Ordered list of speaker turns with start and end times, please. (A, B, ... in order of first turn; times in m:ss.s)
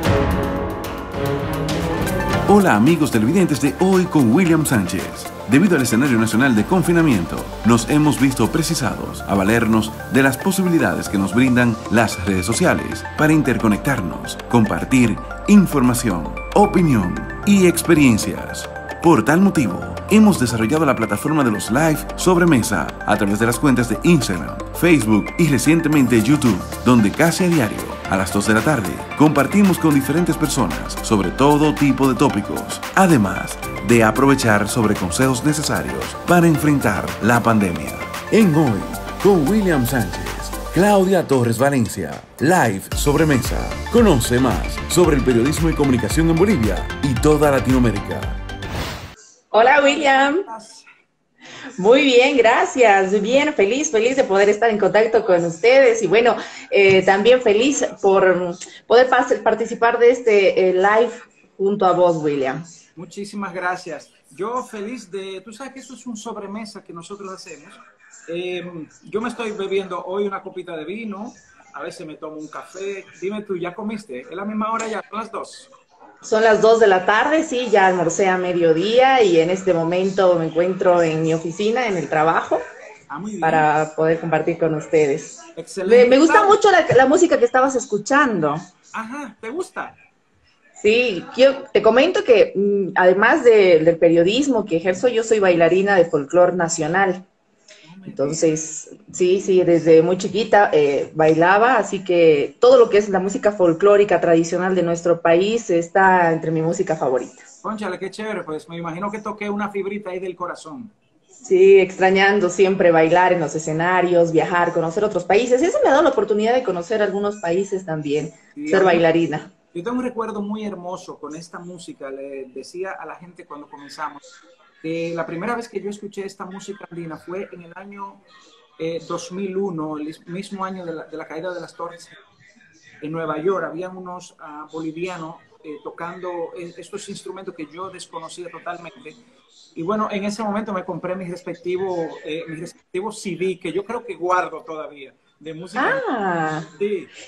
0:02.5-0:48.4 A
0:49.5-0:50.5 B
0:49.5-0:50.8 C
0:51.8-1:02.6 B
1:03.0-1:15.7 C
1:16.2-1:22.6 B
1:23.1-1:23.7 C
1:23.4-1:28.7 B
1:25.6-1:26.6 C
1:28.9-1:30.0 C
1:30.8-1:37.2 B
1:37.8-1:38.5 C
1:38.1-1:47.4 B
1:47.6-1:50.9 C
1:51.4-1:59.5 B
1:58.5-1:59.0 C
1:59.7-2:04.2 C
2:04.8-2:08.2 C
2:08.8-2:12.2 C
2:13.0-2:19.2 C
2:19.7-2:26.0 C
2:25.7-2:26.7 B
2:26.8-2:27.1 C